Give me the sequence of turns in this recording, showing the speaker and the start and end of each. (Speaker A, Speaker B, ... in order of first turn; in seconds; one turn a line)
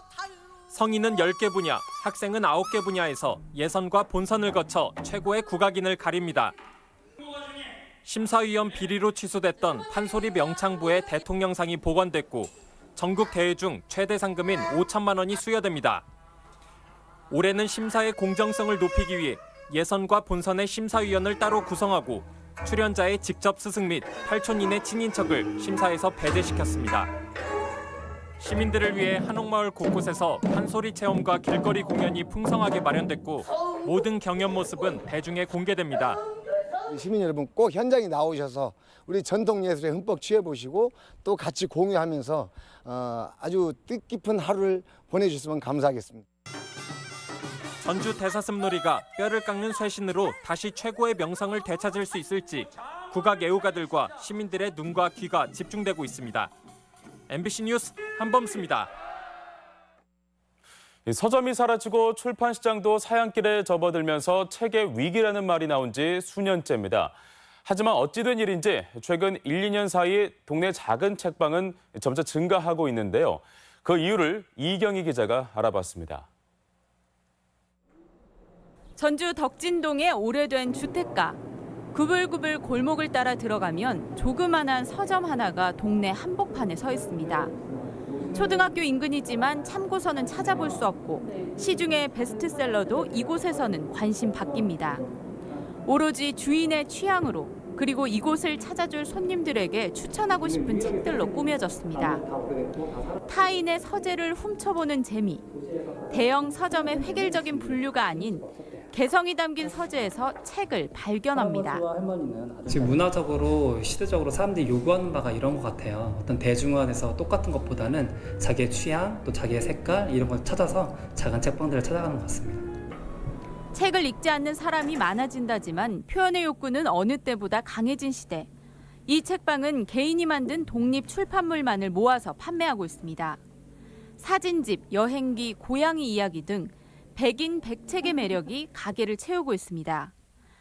Speaker A: 0.7-6.5
Speaker A: 8.0-16.0
Speaker A: 17.3-27.1
Speaker A: 28.4-36.2
Speaker B: 36.9-46.2
Speaker A: 47.8-56.5
Speaker A: 57.3-58.9
Speaker C: 61.0-76.3
Speaker D: 79.0-81.4
Speaker D: 81.9-87.5
Speaker D: 88.3-95.1
Speaker D: 95.8-102.3
Speaker D: 103.2-105.4
Speaker D: 106.1-111.8
Speaker E: 111.7-122.6
Speaker D: 123.7-128.5
Speaker D: 129.1-133.4
Speaker D: 134.2-140.1